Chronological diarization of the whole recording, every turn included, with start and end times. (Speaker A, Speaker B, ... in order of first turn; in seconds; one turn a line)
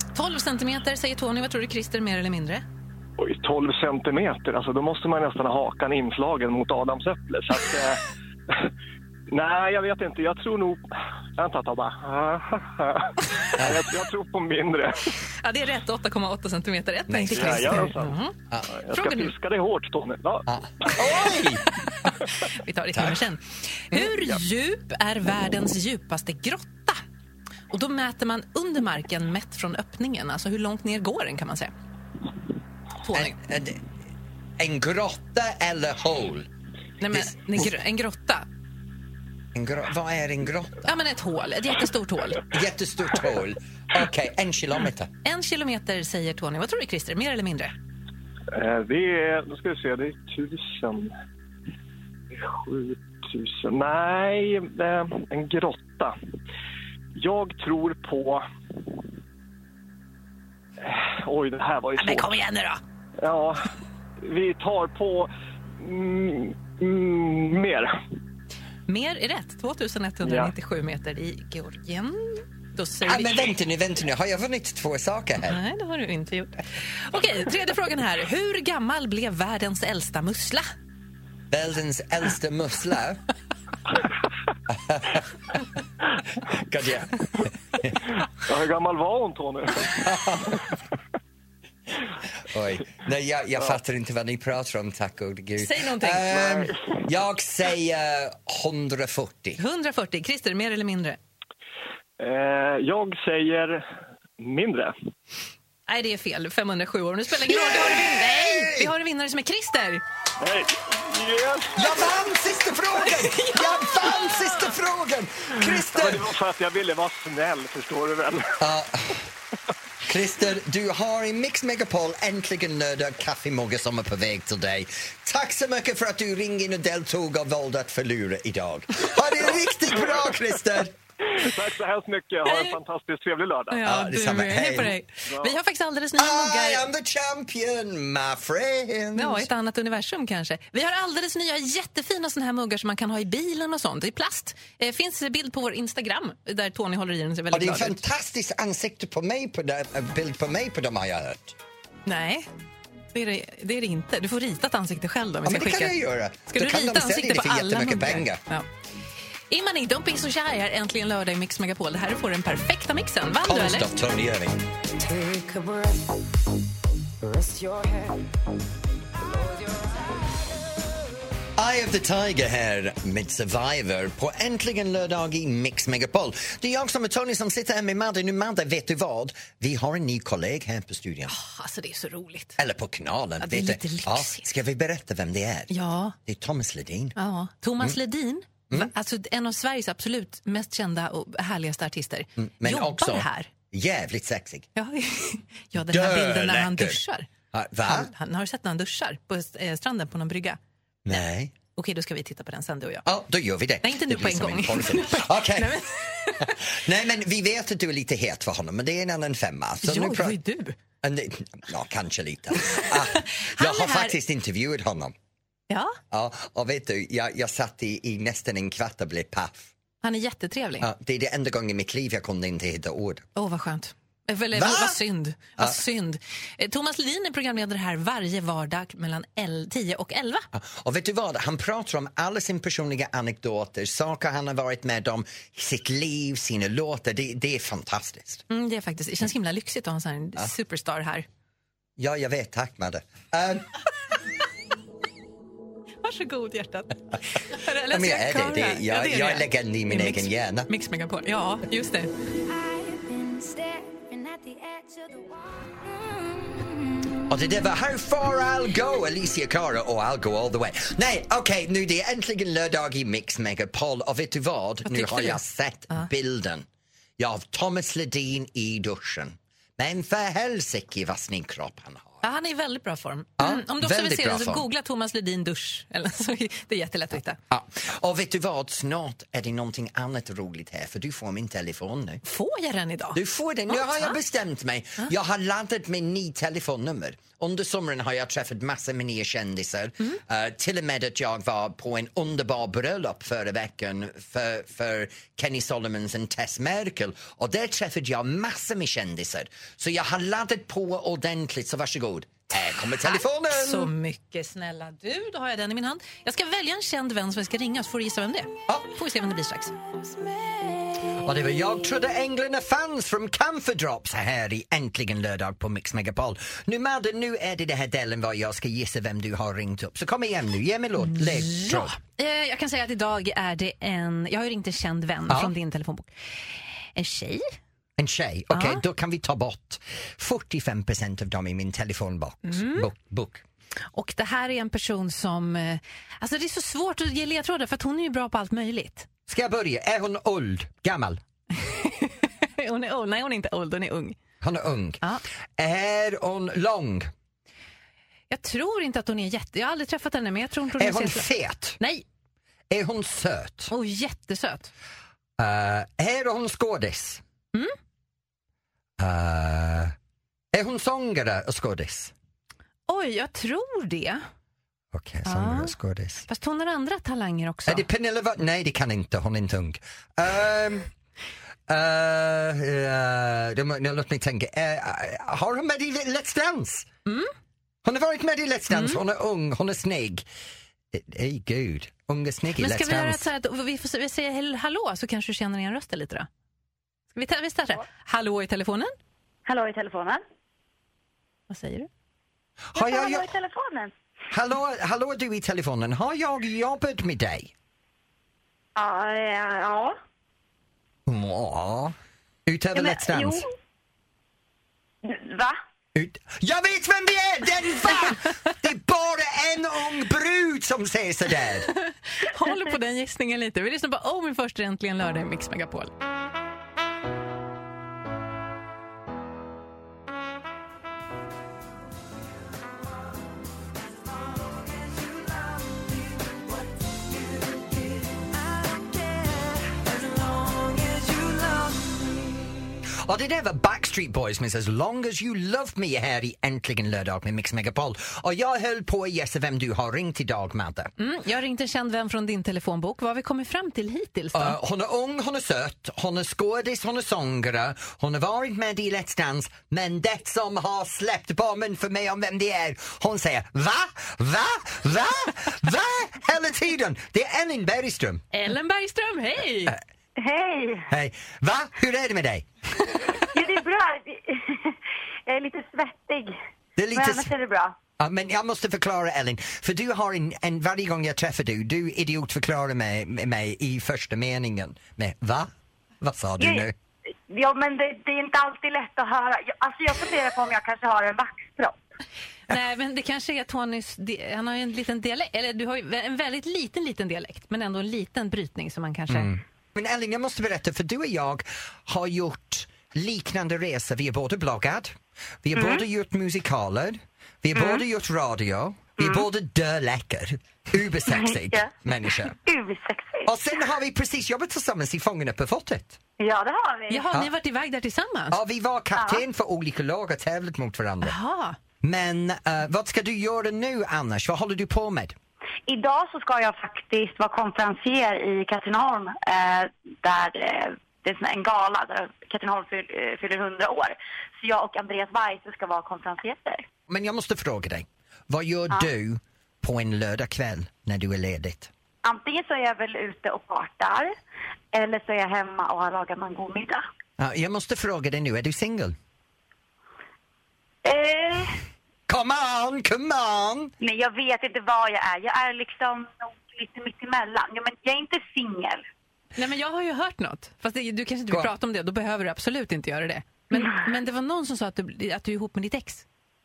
Speaker A: 0.1-2.6
Speaker B: 3.2-8.7
Speaker B: 9.3-10.8
Speaker B: 11.4-15.1
Speaker C: 13.6-13.9
Speaker A: 15.4-18.4
Speaker C: 17.1-17.9
Speaker B: 17.3-21.0
Speaker A: 18.9-19.3
Speaker C: 20.5-21.7
Speaker A: 22.1-27.0
Speaker C: 22.9-23.2
Speaker A: 27.7-31.7
Speaker A: 33.0-33.4
Speaker C: 33.1-33.8
Speaker C: 34.6-36.5
Speaker A: 37.0-38.5
Speaker C: 37.1-37.7
Speaker C: 39.5-40.9
Speaker A: 40.9-42.5
Speaker C: 42.5-45.1
Speaker A: 45.2-47.7
Speaker B: 48.5-51.1
Speaker B: 52.3-56.2
Speaker B: 57.1-58.5
Speaker B: 60.8-62.4
Speaker A: 62.0-62.8
Speaker B: 63.2-63.7
Speaker B: 64.2-67.9
Speaker A: 68.9-73.6
Speaker B: 70.2-70.5
Speaker C: 73.0-75.6
Speaker A: 75.4-80.7
Speaker C: 81.5-83.2
Speaker C: 84.7-85.4
Speaker C: 86.4-88.0
Speaker B: 88.4-89.9
Speaker C: 89.8-90.7
Speaker C: 92.4-99.6
Speaker A: 95.6-96.5
Speaker B: 96.4-96.9
Speaker A: 99.6-101.2
Speaker B: 102.2-103.8
Speaker B: 104.4-105.0
Speaker A: 105.9-110.0
Speaker C: 107.4-108.9
Speaker B: 110.4-112.0
Speaker C: 111.8-116.3
Speaker A: 113.0-114.8
Speaker B: 115.9-118.6
Speaker C: 118.6-119.3
Speaker C: 120.0-131.0
Speaker B: 129.6-130.2
Speaker B: 131.2-133.8
Speaker A: 132.4-132.8
Speaker A: 133.7-136.8
Speaker C: 133.8-134.9
Speaker B: 135.3-135.6
Speaker C: 136.2-139.5
Speaker A: 139.2-148.0
Speaker C: 147.5-151.6
Speaker A: 152.1-152.5
Speaker A: 153.1-158.7
Speaker C: 155.4-158.4
Speaker A: 159.5-163.9
Speaker C: 163.4-164.7
Speaker D: 165.0-166.2
Speaker D: 167.2-168.2
Speaker D: 169.2-170.4
Speaker C: 171.6-181.3
Speaker A: 181.3-182.6
Speaker C: 182.6-187.2
Speaker A: 183.4-184.5
Speaker A: 185.7-186.2
Speaker A: 187.2-193.5
Speaker C: 192.4-194.7
Speaker A: 194.8-197.3
Speaker C: 195.9-197.0
Speaker C: 197.5-198.1
Speaker A: 197.8-200.6
Speaker C: 201.1-201.5
Speaker A: 201.8-203.1
Speaker C: 203.1-205.8
Speaker A: 203.8-206.6
Speaker C: 206.4-210.4
Speaker A: 209.8-210.8
Speaker C: 211.0-215.1
Speaker A: 212.8-214.2
Speaker A: 215.7-216.0
Speaker C: 216.1-219.7
Speaker A: 220.0-220.9
Speaker C: 220.8-223.3
Speaker A: 223.3-230.5
Speaker C: 224.5-225.0
Speaker C: 230.5-238.4
Speaker A: 238.5-241.3
Speaker C: 242.0-243.7
Speaker A: 246.0-252.1
Speaker C: 247.8-250.7
Speaker D: 252.5-255.8
Speaker C: 257.3-266.7
Speaker A: 264.9-266.1
Speaker C: 267.2-272.2
Speaker A: 272.2-277.4
Speaker C: 273.4-274.7
Speaker C: 277.5-282.2
Speaker A: 282.2-284.2
Speaker C: 283.1-303.9
Speaker A: 303.0-309.8
Speaker D: 310.2-310.6
Speaker C: 311.1-322.0
Speaker A: 321.0-326.1
Speaker A: 327.0-327.5
Speaker C: 328.0-333.4
Speaker A: 328.5-328.8
Speaker A: 332.4-332.9
Speaker A: 333.9-339.1
Speaker C: 339.3-341.2
Speaker A: 341.5-344.2
Speaker C: 344.4-345.0
Speaker C: 345.6-347.1
Speaker A: 348.3-351.3
Speaker C: 350.8-351.8
Speaker A: 351.8-352.0
Speaker C: 352.7-353.7
Speaker A: 353.7-354.7
Speaker C: 355.4-357.2
Speaker C: 359.0-359.9
Speaker C: 360.5-362.1
Speaker A: 362.9-364.2
Speaker C: 364.9-366.3
Speaker A: 365.2-365.7
Speaker A: 366.3-367.9
Speaker C: 367.7-370.9
Speaker C: 371.7-376.9
Speaker A: 377.1-377.3
Speaker C: 377.8-380.3
Speaker A: 378.7-379.0
Speaker C: 380.9-383.3
Speaker A: 382.6-386.3
Speaker A: 387.1-388.9
Speaker E: 389.5-390.2
Speaker A: 391.5-391.9
Speaker C: 392.8-393.3
Speaker E: 392.8-393.9
Speaker C: 394.3-397.5
Speaker E: 398.8-400.0
Speaker C: 401.1-401.9
Speaker C: 402.5-403.4
Speaker E: 402.8-403.5
Speaker E: 405.0-405.6
Speaker C: 405.9-411.7
Speaker A: 412.1-415.9
Speaker D: 424.9-425.4
Speaker D: 428.6-431.8
Speaker C: 433.0-440.9
Speaker A: 441.0-444.6
Speaker C: 444.3-458.2
Speaker A: 458.3-459.8
Speaker E: 460.2-460.9
Speaker C: 460.9-462.5
Speaker E: 463.3-466.3
Speaker C: 466.8-467.3
Speaker E: 466.9-467.8
Speaker C: 468.0-475.5
Speaker C: 476.0-476.7
Speaker E: 477.3-481.8
Speaker A: 482.5-489.3
Speaker C: 489.1-502.4
Speaker E: 495.5-495.8
Speaker E: 497.6-497.8
Speaker E: 499.0-499.2
Speaker E: 501.1-501.7
Speaker E: 502.2-503.3
Speaker C: 503.3-506.0
Speaker E: 506.2-507.1
Speaker A: 506.9-508.4
Speaker C: 508.3-511.2
Speaker E: 509.0-509.2
Speaker A: 511.0-511.6
Speaker C: 511.8-515.2
Speaker E: 515.7-526.6
Speaker C: 526.9-531.7
Speaker E: 532.0-534.2
Speaker E: 534.7-536.8
Speaker C: 537.2-539.0
Speaker E: 540.8-541.6
Speaker C: 542.1-543.7
Speaker E: 543.8-548.8
Speaker A: 549.4-556.0